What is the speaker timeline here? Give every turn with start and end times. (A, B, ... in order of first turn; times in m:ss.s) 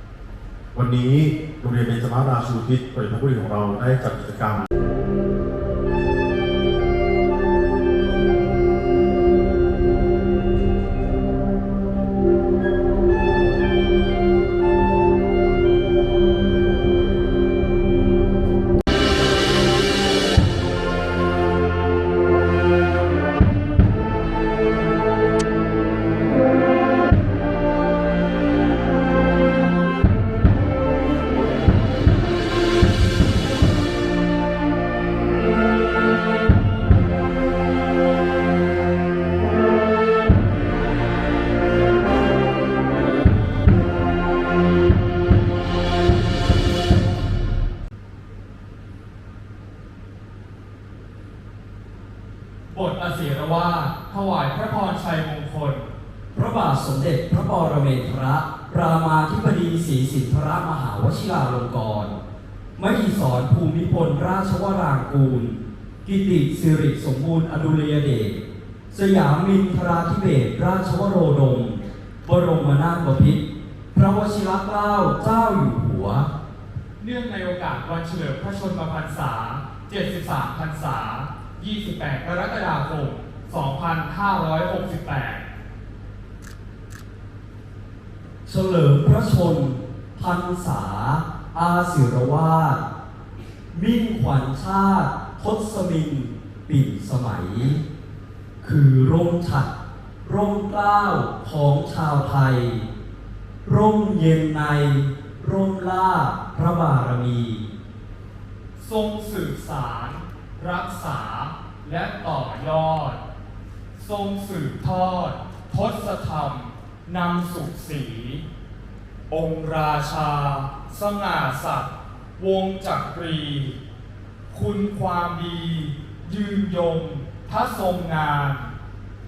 0:00.8-0:04.7 A
0:52.7-0:55.9 B
0:56.4-1:02.2 C
1:02.8-1:16.3 C
1:17.0-1:25.5 B
1:28.5-1:32.8 C
1:33.7-1:37.8 C
1:38.6-1:39.7 C
1:40.2-1:42.9 C
1:43.6-1:47.7 C
1:48.8-1:53.2 B
1:54.0-1:58.4 B
1:59.3-2:03.8 B
2:04.5-2:08.7 B